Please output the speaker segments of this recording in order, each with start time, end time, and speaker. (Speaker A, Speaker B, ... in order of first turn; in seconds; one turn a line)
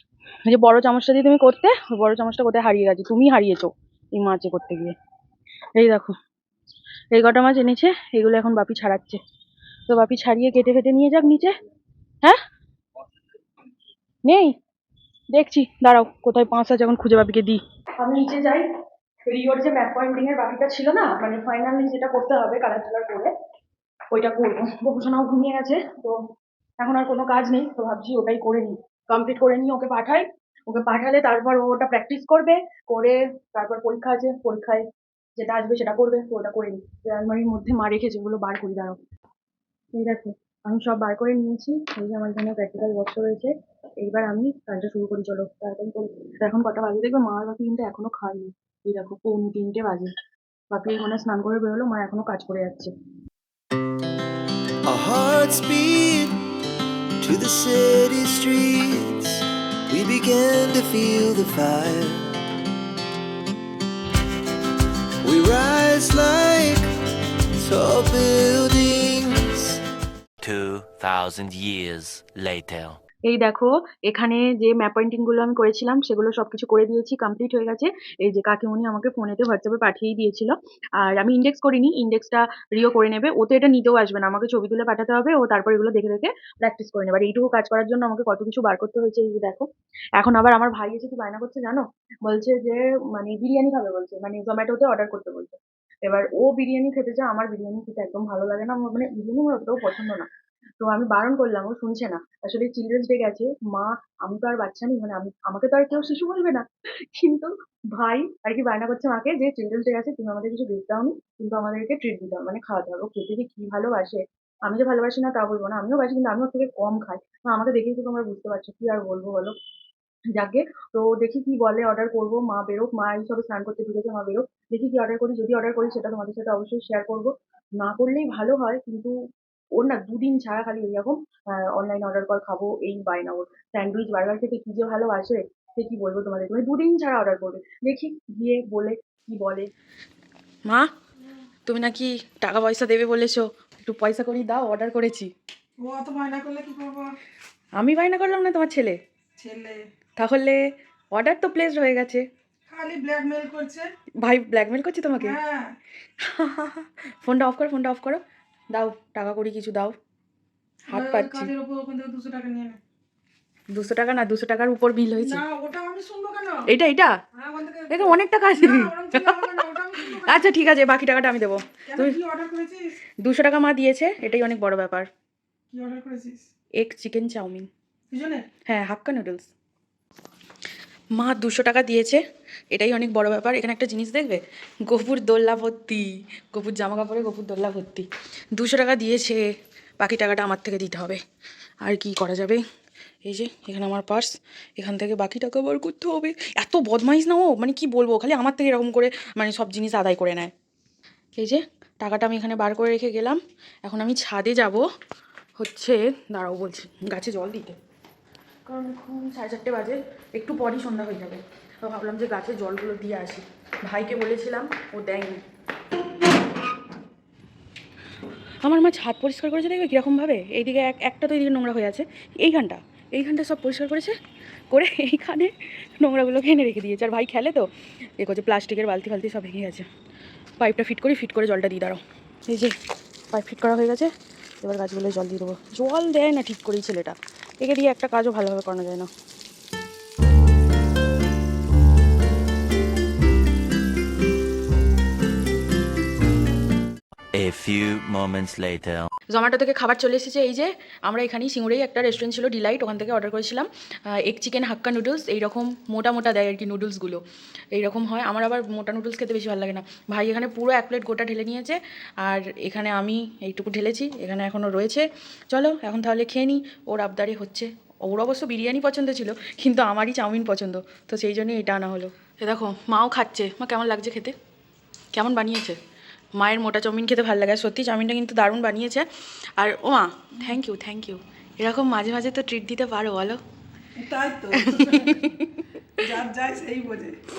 Speaker A: 0.5-4.9
Speaker A: 5.8-6.2
Speaker A: 7.1-9.2
Speaker A: 9.9-11.6
Speaker A: 14.2-14.6
Speaker A: 15.3-18.7
Speaker A: 19.2-23.3
Speaker A: 24.1-26.2
Speaker A: 26.8-34.8
Speaker A: 35.4-39.0
Speaker A: 39.9-50.1
Speaker A: 50.7-52.9
Speaker B: 54.8-56.4
Speaker B: 57.2-62.3
Speaker B: 65.2-66.9
Speaker B: 67.6-69.8
Speaker C: 70.4-73.0
Speaker A: 73.2-89.7
Speaker A: 90.2-100.3
Speaker A: 100.8-119.5
Speaker A: 120.3-129.2
Speaker A: 129.8-139.7
Speaker A: 141.7-145.3
Speaker D: 145.8-147.1
Speaker A: 147.8-149.0
Speaker D: 149.4-149.8
Speaker A: 150.2-150.6
Speaker A: 151.1-152.2
Speaker D: 152.7-153.9
Speaker A: 154.2-155.4
Speaker D: 155.2-155.7
Speaker A: 156.2-158.2
Speaker A: 158.7-159.9
Speaker A: 160.9-161.5
Speaker D: 160.9-162.8
Speaker A: 163.7-165.4
Speaker D: 165.2-166.6
Speaker A: 166.7-167.1
Speaker D: 167.3-170.4
Speaker A: 167.9-172.2
Speaker D: 171.9-173.0
Speaker A: 173.2-175.1
Speaker D: 175.7-176.4
Speaker A: 176.8-177.7
Speaker D: 178.1-178.4
Speaker A: 178.7-179.5
Speaker A: 181.2-182.2
Speaker A: 182.7-189.4
Speaker A: 190.0-191.2
Speaker A: 191.8-192.6
Speaker A: 193.3-200.5
Speaker A: 201.4-204.8
Speaker A: 205.6-207.8
Speaker A: 208.7-215.4
Speaker A: 218.6-224.2
Speaker A: 224.7-229.9
Speaker A: 230.6-232.8
Speaker A: 233.3-234.1
Speaker A: 234.6-239.1
Speaker C: 247.3-249.1
Speaker A: 249.3-257.2
Speaker A: 257.7-274.3
Speaker A: 275.1-275.8
Speaker A: 276.4-279.1
Speaker A: 279.6-283.4
Speaker D: 284.0-285.2
Speaker A: 284.5-285.6
Speaker D: 286.0-287.2